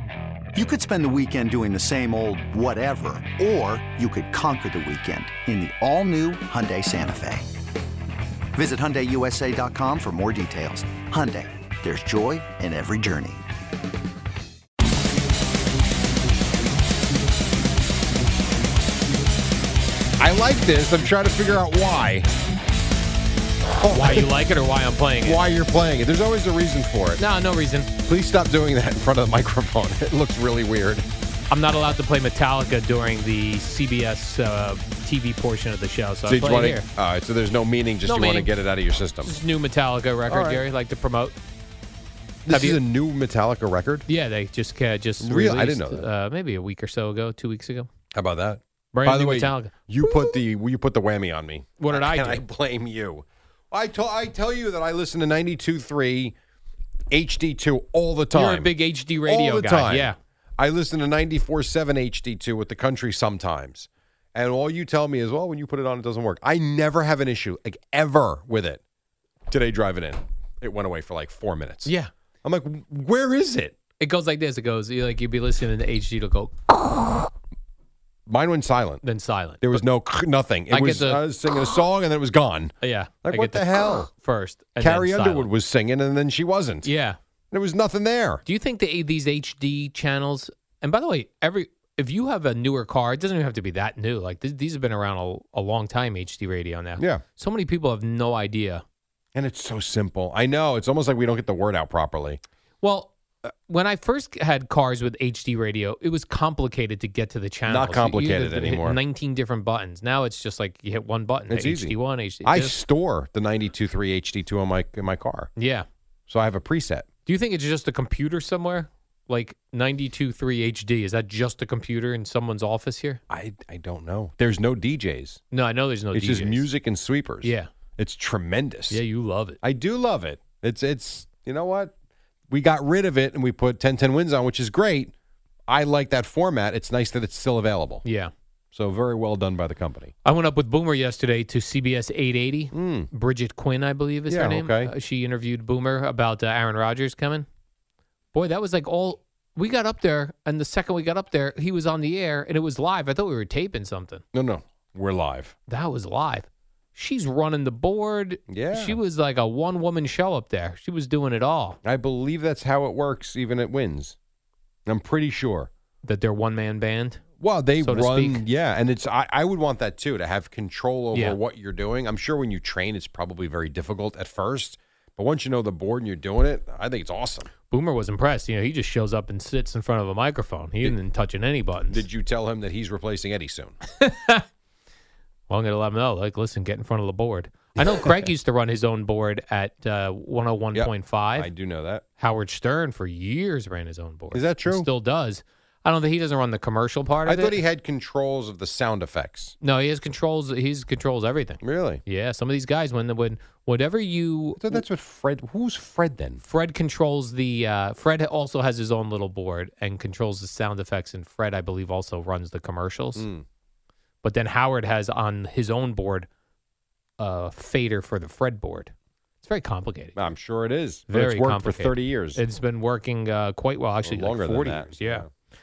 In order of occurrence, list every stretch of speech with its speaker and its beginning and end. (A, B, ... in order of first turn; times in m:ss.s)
0:00.6-0:07.5 A
0:08.6-0:13.4 A
0:20.2-0:22.3 B
0:23.7-0:24.3 B
0:23.9-0:25.4 C
0:25.2-0:27.2 B
0:27.2-0:27.9 C
0:28.0-0:31.1 B
0:31.5-0:36.9 C
0:36.3-0:39.3 B
0:38.0-0:38.5 C
0:39.2-0:41.4 C
0:40.3-0:40.6 B
0:42.5-0:44.0 B
0:42.5-0:42.8 C
0:44.1-0:47.9 C
0:45.2-0:46.0 B
0:48.1-0:56.3 B
0:48.9-0:50.4 C
0:51.8-0:52.4 C
0:57.1-0:58.7 B
0:58.3-1:00.2 C
0:59.3-1:08.8 B
1:09.5-1:11.9 B
1:11.8-1:12.1 C
1:12.4-1:13.8 B
1:14.0-1:16.8 C
1:18.3-1:19.0 B
1:19.0-1:19.8 C
1:19.6-1:22.7 B
1:20.7-1:21.6 C
1:22.8-1:25.5 C
1:23.2-1:24.1 B
1:24.8-1:26.9 B
1:26.8-1:27.2 C
1:27.5-1:28.4 B
1:28.5-1:38.8 C
1:37.0-1:37.2 B
1:39.4-1:42.4 B
1:42.8-1:52.8 C
1:47.7-1:49.0 B
1:51.5-1:55.5 B
1:55.6-1:55.9 C
1:56.3-1:57.1 B
1:57.3-2:03.2 C
2:03.3-2:05.4 B
2:05.5-2:06.7 C
2:06.1-2:09.0 B
2:07.4-2:07.7 C
2:08.9-2:09.6 C
2:09.6-2:11.9 B
2:12.5-2:15.1 B
2:15.7-2:18.0 B
2:18.0-2:18.3 C
2:18.7-2:20.1 B
2:20.2-2:27.5 C
2:22.7-2:23.1 B
2:24.3-2:24.9 B
2:28.3-2:34.2 C
2:34.3-2:35.6 B
2:35.7-2:41.8 C
2:38.5-2:39.0 B
2:41.8-2:44.2 B
2:44.9-2:45.7 B
2:46.0-2:47.2 C
2:47.4-2:57.5 B
2:47.8-2:48.4 C
2:57.7-3:02.0 C
3:01.9-3:03.8 B
3:04.0-3:04.4 C
3:05.5-3:11.5 C
3:10.8-3:12.0 B
3:12.2-3:17.6 C
3:14.3-3:14.9 B
3:17.3-3:19.5 B
3:19.6-3:24.8 C
3:21.6-3:22.0 B
3:24.6-3:26.4 B
3:26.4-3:33.3 C
3:33.2-3:33.4 B
3:34.2-3:36.3 C
3:37.2-3:40.2 C
3:40.2-3:42.4 B
3:41.1-3:45.3 C
3:44.0-3:45.3 B